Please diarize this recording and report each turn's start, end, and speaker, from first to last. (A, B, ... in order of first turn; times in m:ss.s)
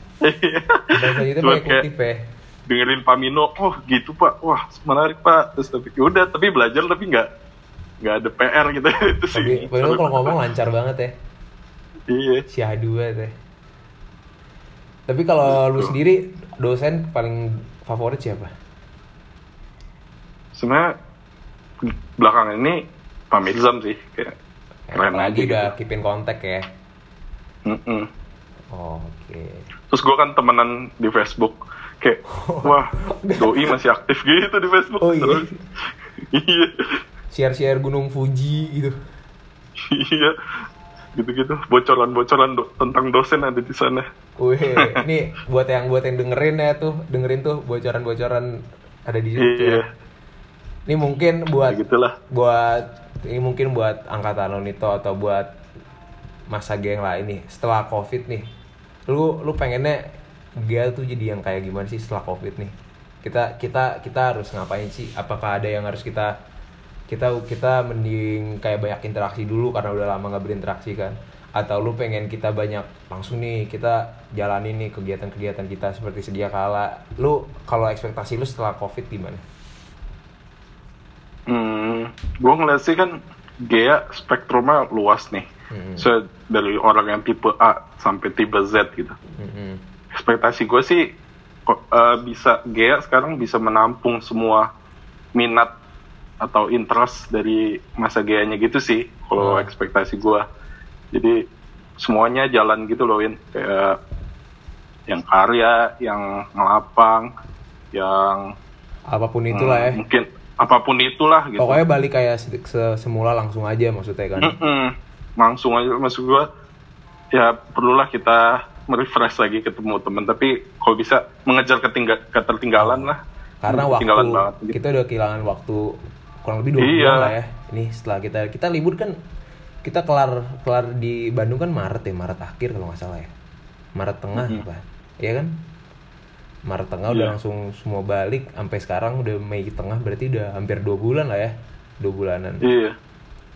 0:00.2-0:01.8 A
0:00.9-0:02.2 B
0:02.7-0:07.3 A
0:08.0-0:10.3 A
0:09.3-0:11.1 B
0:12.1-0:12.4 A
0:12.5-0:13.3 B
0:15.1-0:18.5 B
0:15.4-0:15.9 A
0:20.6-0:21.0 A
0:21.8-0:24.3 A
0:24.9-0:26.7 B
0:25.0-0:25.7 A
0:27.7-0:28.1 A
0:28.7-0:29.7 B
0:29.9-0:35.5 A
0:32.3-0:33.8 B
0:35.0-0:35.5 B
0:36.3-0:36.9 A
0:37.3-0:39.0 B
0:39.8-0:40.4 A
0:41.2-0:44.1 A
0:44.4-0:49.8 B
0:44.8-0:45.0 A
0:49.4-0:49.9 A
0:50.9-0:55.5 B
0:51.7-0:52.2 A
0:56.5-0:58.5 B
0:59.1-1:00.0 B
1:00.6-1:06.3 B
1:07.1-1:19.4 B
1:21.5-1:25.5 A
1:25.7-1:26.1 B
1:26.0-1:29.2 A
1:29.4-1:29.8 B
1:30.1-1:31.1 A
1:31.7-1:34.7 A
1:35.4-1:35.7 A
1:36.4-1:40.4 A
1:39.4-1:39.7 B
1:41.1-1:41.4 A
1:42.0-1:44.0 A
1:45.1-1:47.3 A
1:47.9-1:48.5 A
1:49.1-1:50.0 B
1:49.5-1:51.8 A
1:51.6-1:54.6 B
1:54.4-1:56.5 A
1:57.3-2:04.8 A
2:02.8-2:03.1 B
2:03.6-2:09.2 B
2:06.8-2:07.3 A
2:09.8-2:13.3 B
2:14.0-2:15.5 B
2:14.4-2:14.6 A
2:16.7-2:22.6 B
2:17.1-2:17.3 A
2:22.6-2:23.0 A